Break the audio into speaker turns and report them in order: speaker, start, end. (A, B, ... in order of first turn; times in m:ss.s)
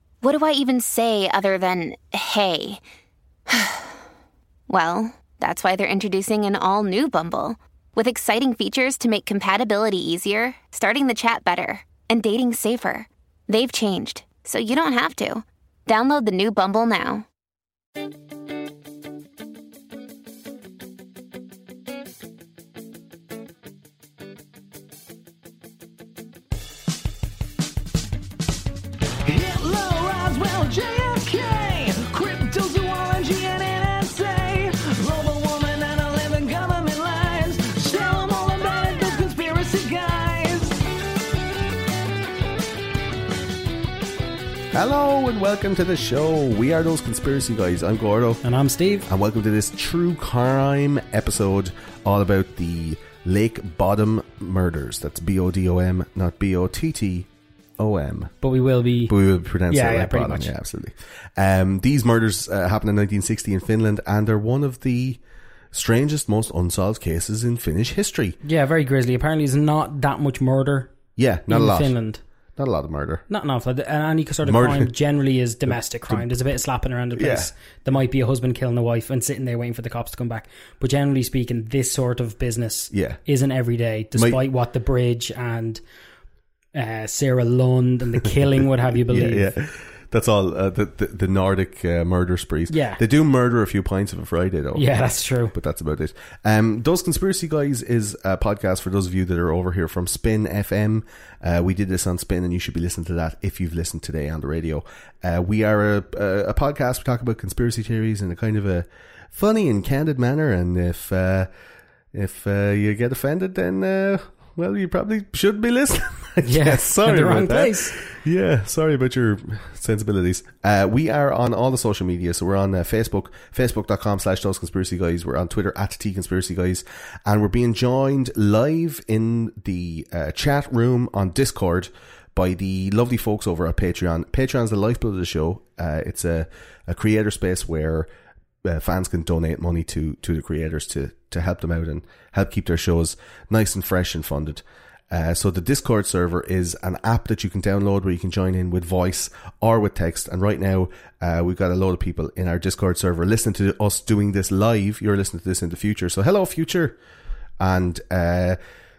0:00.2-0:02.8 A
0:03.5-0:03.9 A
0:04.7-0:17.2 A
0:29.2-0:40.8 B
0:44.7-0:48.4 C
0:48.4-0:49.1 D
0:49.1-0:58.3 C
0:58.4-0:59.1 D
0:59.1-1:05.2 C
0:59.7-1:00.5 D
1:05.7-1:08.4 C
1:08.4-1:10.9 D
1:11.2-1:12.0 C
1:11.5-1:12.2 D
1:12.6-1:13.2 C
1:13.3-1:25.8 D
1:14.4-1:14.9 C
1:16.1-1:16.3 C
1:17.2-1:17.5 C
1:22.9-1:23.2 C
1:24.2-1:24.4 C
1:26.7-1:29.5 D
1:29.1-1:34.9 C
1:32.7-1:33.0 D
1:34.8-1:35.5 D
1:35.5-1:51.5 C
1:52.1-2:18.1 C
1:56.4-1:58.0 D
2:18.6-2:37.0 C
2:37.6-2:38.6 C